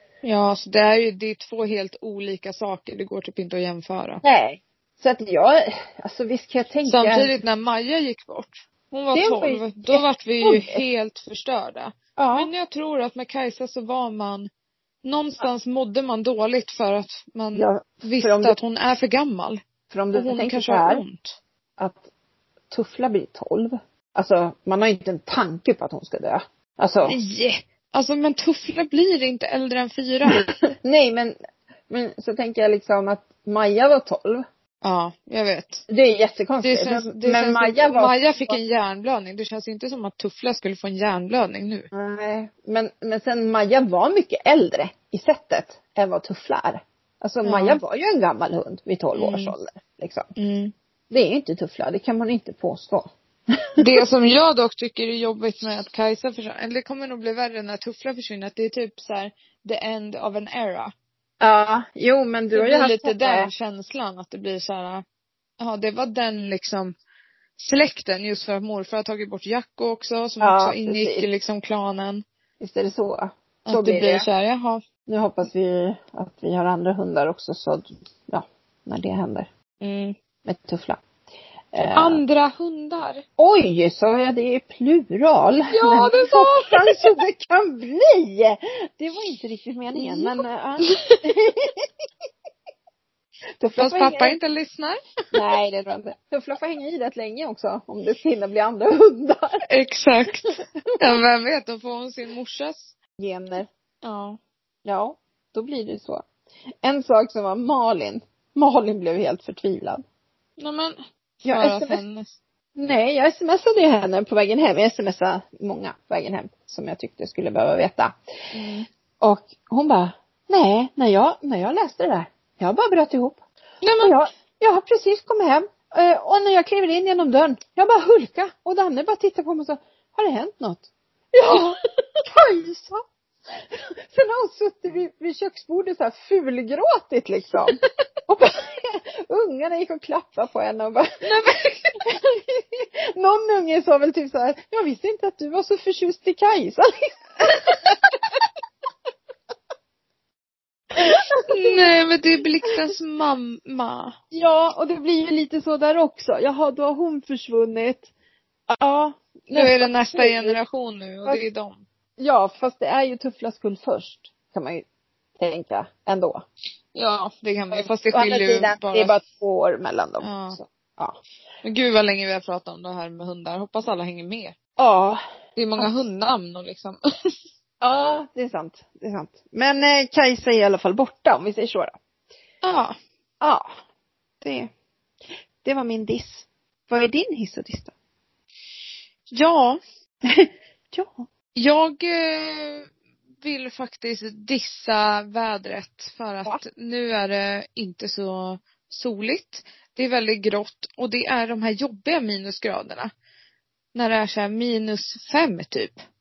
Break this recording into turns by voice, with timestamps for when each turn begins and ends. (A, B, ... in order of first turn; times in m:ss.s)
0:00.2-0:04.2 A
0:04.2-0:07.4 B
0:06.8-0:14.5 A
0:09.1-0:10.8 B
0:12.2-0:12.5 B
0:15.0-0:19.6 A
0:17.5-0:18.6 B
0:19.9-0:21.0 B
0:20.1-0:21.4 A
0:21.8-0:22.0 B
0:22.7-0:27.2 B
0:27.1-0:30.5 A
0:30.3-0:31.4 B
0:31.9-0:34.4 B
0:34.8-0:35.8 A
0:35.9-0:38.6 B
0:36.6-0:41.9 A
0:41.9-0:50.3 B
0:47.4-0:47.8 A
0:49.1-0:49.5 A
0:50.4-0:50.7 A
0:51.1-0:53.1 B
0:53.8-1:00.9 A
1:01.4-1:03.5 B
1:02.5-1:05.0 A
1:05.6-1:06.9 A
1:07.6-1:12.2 A
1:10.4-1:11.2 B
1:12.6-1:14.2 B
1:13.7-1:14.8 A
1:15.0-1:19.5 B
1:19.8-1:20.1 A
1:20.4-1:21.0 B
1:21.7-1:22.2 B
1:21.8-1:23.2 A
1:23.4-1:31.9 B
1:25.7-1:27.1 A
1:29.9-1:31.2 A
1:33.6-1:34.4 B
1:33.8-1:35.4 A
1:35.3-1:39.6 B
1:39.7-1:42.9 A
1:43.2-1:43.7 B
1:44.0-1:44.4 A
1:44.8-1:46.2 B
1:46.8-1:50.0 B
1:50.6-1:52.4 A
1:51.4-1:52.0 B
1:52.8-1:58.1 B
1:58.5-1:58.9 A
1:59.2-2:03.4 B
2:03.8-2:04.1 A
2:04.0-2:13.0 B
2:11.4-2:12.2 A
2:13.7-2:21.2 B
2:21.2-2:22.0 A
2:22.0-2:28.0 B
2:31.0-2:31.8 B
2:31.5-2:34.1 A
2:34.3-2:38.1 B
2:38.7-2:40.6 B
2:39.5-2:41.8 A
2:42.2-2:44.8 B
2:45.4-2:46.4 B
2:46.9-2:49.1 A
2:47.7-2:51.2 B
2:50.2-2:50.6 A
2:51.6-2:54.5 A
2:54.8-2:55.2 B
2:55.6-2:57.0 A
2:57.8-3:02.0 B
3:02.6-3:02.9 A
3:03.4-3:03.7 B
3:04.4-3:04.7 B
3:05.6-3:07.9 B
3:09.3-3:09.8 A
3:10.2-3:11.2 B
3:11.5-3:12.9 A
3:13.4-3:23.1 A
3:23.9-3:26.0 A